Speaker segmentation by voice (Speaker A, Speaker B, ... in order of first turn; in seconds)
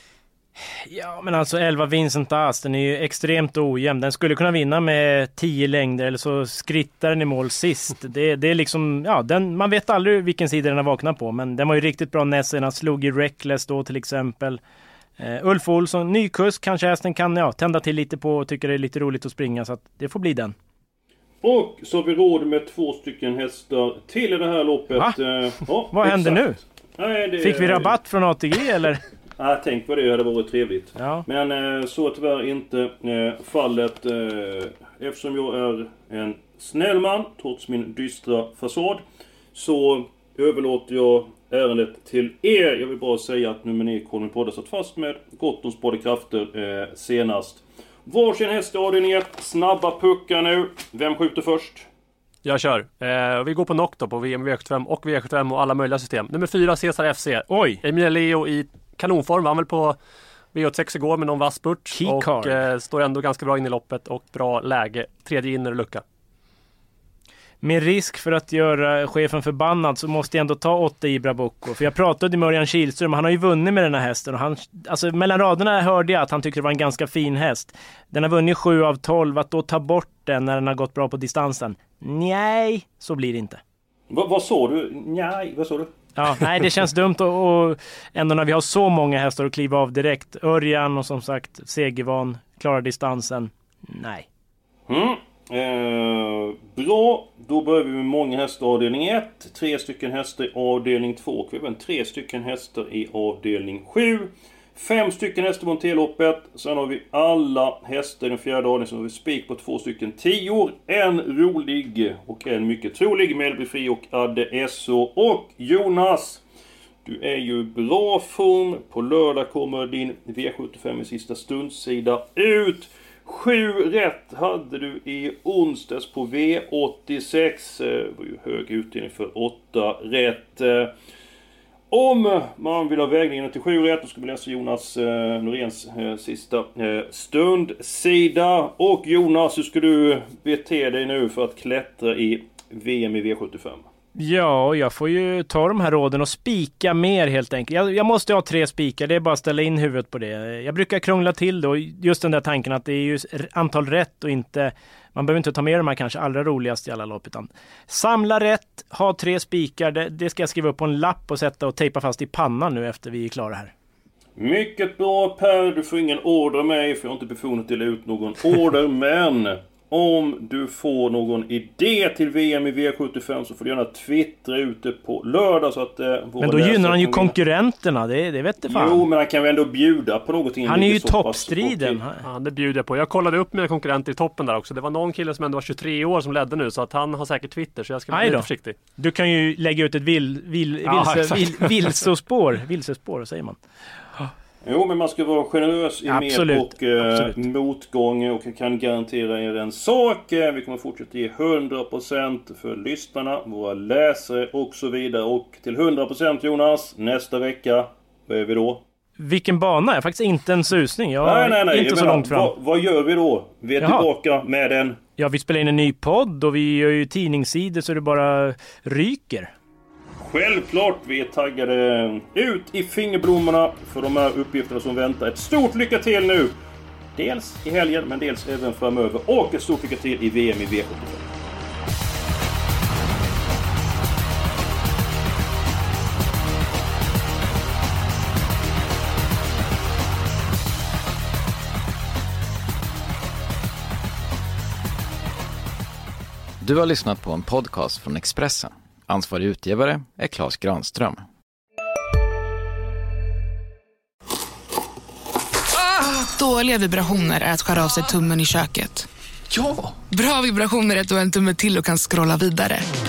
Speaker A: 0.8-14.6, 15.2-20.5, 25.9-26.6, 27.4-29.0, 31.0-31.2, 57.5-57.8, 62.0-62.6, 67.6-83.6, 86.2-94.3, 144.2-163.7, 176.4-179.1, 180.7-182.2, 188.1-193.6, 196.1-197.4, 209.2-212.5, 213.8-214.1, 215.2-219.5
Speaker B: 21.4-26.4, 27.0-27.9, 29.4-39.0, 39.5-51.9, 84.1-85.9, 94.9-116.4, 117.0-130.9, 131.9-143.8, 164.4-177.3, 178.7-182.0, 194.6-208.8, 211.2-215.0, 220.2-226.5, 227.2-231.3
Speaker C: 52.4-60.0, 60.5-66.0, 182.2-188.8, 190.9-192.0
Speaker D: 246.6-251.2
Speaker E: 255.7-259.1, 260.1-262.9